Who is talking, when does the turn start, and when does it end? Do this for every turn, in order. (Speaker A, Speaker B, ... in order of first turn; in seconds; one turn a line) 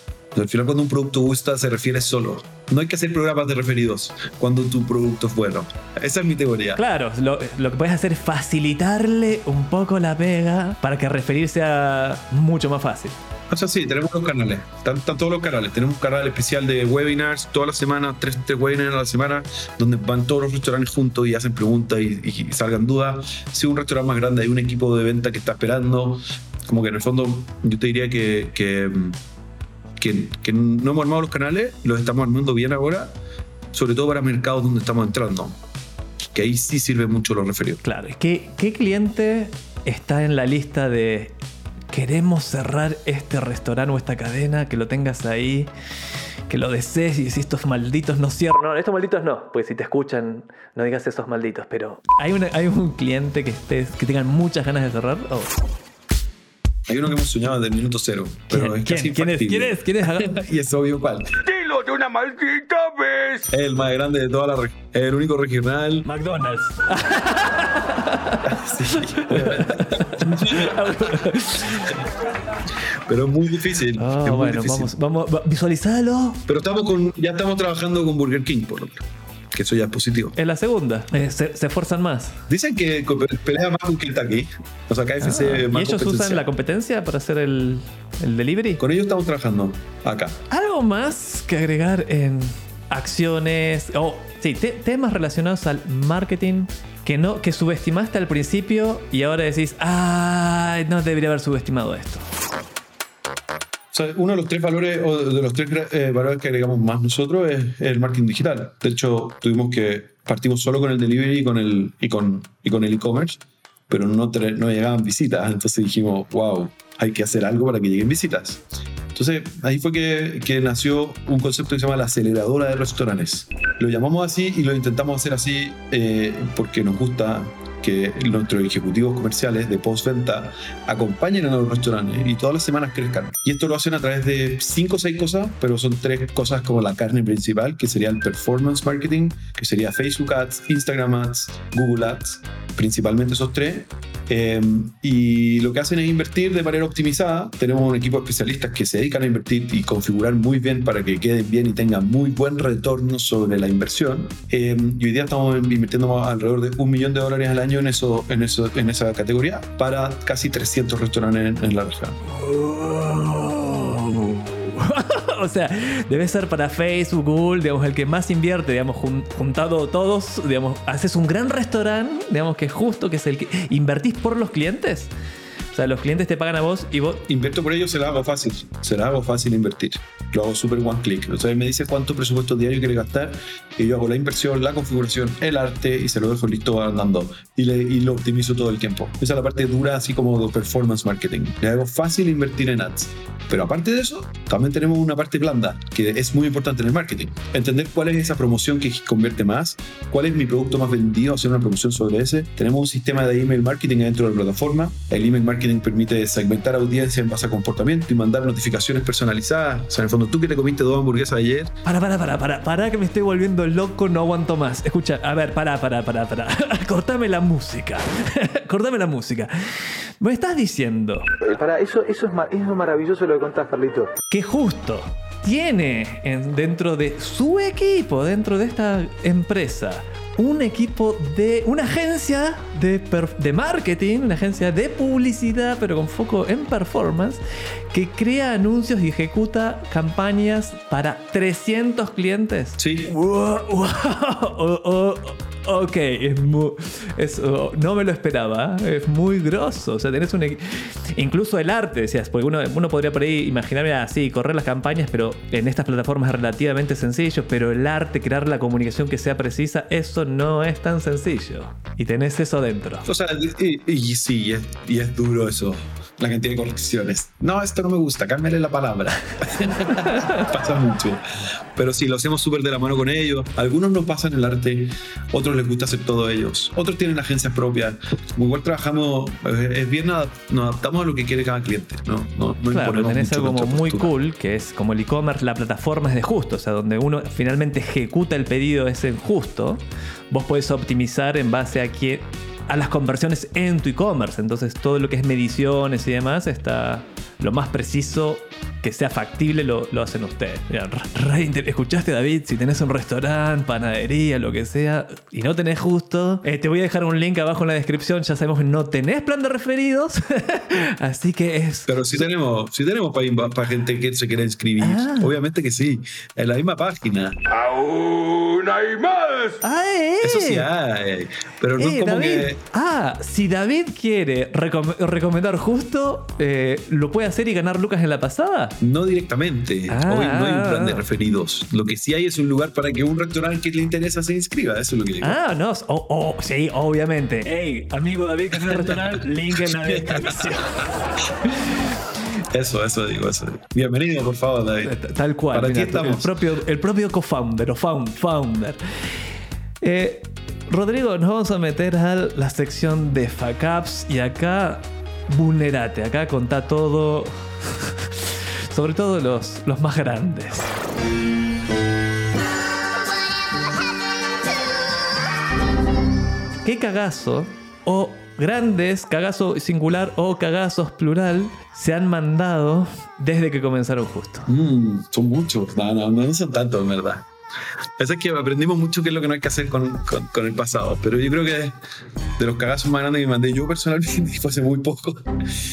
Speaker A: 0.3-6.8
Speaker B: 6.8-13.2
Speaker A: 13.5-29.2
Speaker A: 30.0-33.1
Speaker A: 33.7-35.6
Speaker A: 36.3-37.8
Speaker B: 37.8-41.3
Speaker B: 41.9-45.7
Speaker B: 46.5-55.5
Speaker A: 56.9-61.3
Speaker B: 58.5-60.4
Speaker C: 61.4-63.5
Speaker A: 63.5-66.1
Speaker B: 66.0-72.0
Speaker A: 68.5-70.9
Speaker A: 73.1-74.9
Speaker B: 74.0-76.4
Speaker A: 76.5-80.3
Speaker B: 80.3-82.3
Speaker A: 82.5-86.4
Speaker B: 85.2-88.8
Speaker A: 88.8-90.4
Speaker B: 90.5-102.3
Speaker A: 103.9-162.2
Speaker B: 162.3-175.1
Speaker B: 175.7-177.2
Speaker A: 177.3-211.7
Speaker B: 211.8-221.3
Speaker D: 221.4-224.1
Speaker B: 224.3-237.4
Speaker B: 237.9-263.1
Speaker A: 242.8-243.1
Speaker A: 263.0-271.2
Speaker B: 270.1-270.4
Speaker A: 271.8-284.1
Speaker B: 282.7-312.0
Speaker A: 311.9-317.4
Speaker B: 314.8-315.3
Speaker C: 317.5-319.6
Speaker B: 319.6-320.7
Speaker A: 320.2-322.6
Speaker B: 321.8-328.8
Speaker A: 328.8-335.4
Speaker B: 329.9-331.0
Speaker B: 335.2-340.9
Speaker A: 338.5-340.6
Speaker A: 342.5-344.9
Speaker B: 344.8-348.8
Speaker A: 345.5-346.3
Speaker B: 349.8-360.7
Speaker B: 366.6-374.5
Speaker A: 374.5-377.3
Speaker A: 378.0-381.8
Speaker A: 382.4-385.3